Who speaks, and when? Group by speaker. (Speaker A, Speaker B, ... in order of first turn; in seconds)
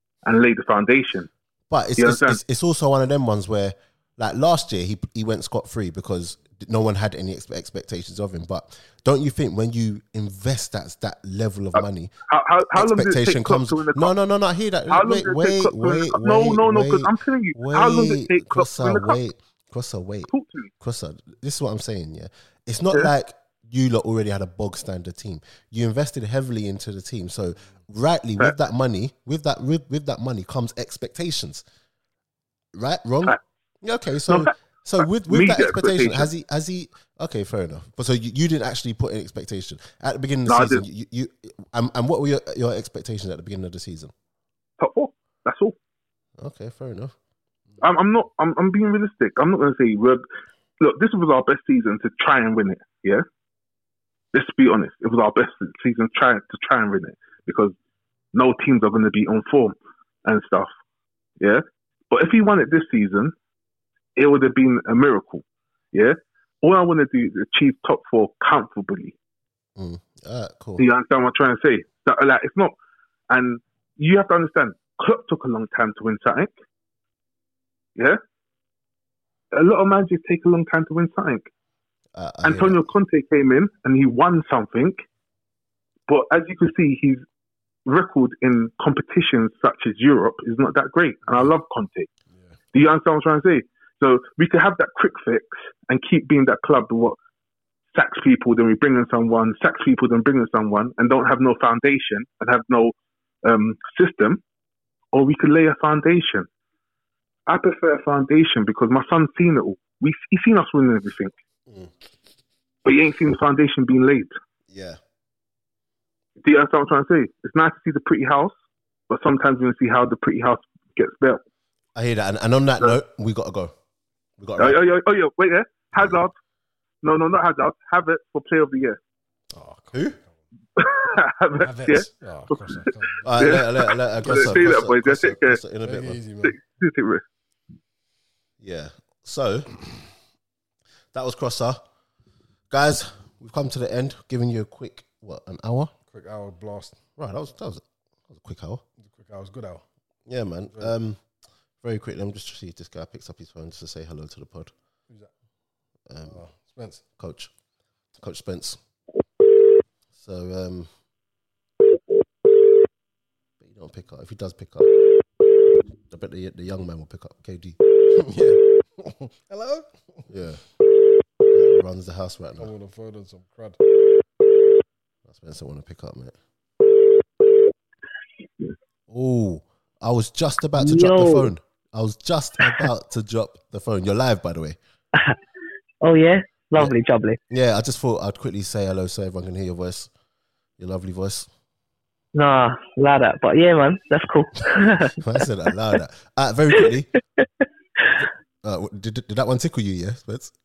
Speaker A: 0.2-1.3, 2.0-2.4, 11.8-14.1, 14.9-19.2, 20.3-20.7, 34.3-34.5, 35.3-36.3, 40.5-40.8, 44.8-45.7, 47.8-50.2, 50.8-53.2, 54.3-57.7, 58.3-60.7, 61.4-63.3, 64.2-69.1, 70.8-72.7, 73.3-76.5, 79.5-81.5, 82.4-85.0, 86.1-87.2, 87.9-92.1, 92.7-97.2, 97.9-104.4, 105.1-106.5, 107.5-111.3, 112.8-114.3, 116.4-118.5, 119.1-121.4, 124.6-126.3, 127.0-129.0, 130.8-135.6, 136.4-137.2
Speaker B: 1.7-12.1, 12.7-31.6, 32.7-44.1, 46.4-47.1, 69.8-70.9, 82.1-82.9, 114.7-115.0, 122.0-123.7, 124.4-124.8, 126.0-126.2, 129.9-130.2, 133.2-136.2, 138.6-139.8, 141.1-141.8, 142.7-145.9, 147.2-148.8, 150.3-151.2, 151.8-154.7, 156.1-156.4, 157.2-157.5, 158.2-158.8, 160.2-160.9, 163.6-164.9, 166.1-167.8, 170.3-170.6, 171.5-172.7, 175.2-176.4, 179.1-184.8, 187.5-190.1, 190.8-191.5, 195.1-197.1, 198.6-200.5
Speaker C: 129.5-130.3, 131.6-133.6, 134.2-134.7, 135.8-136.6, 146.1-147.0, 149.0-149.8, 156.3-157.0, 168.1-170.3, 172.6-173.8
Speaker D: 180.8-181.5, 186.0-187.4, 192.3-195.2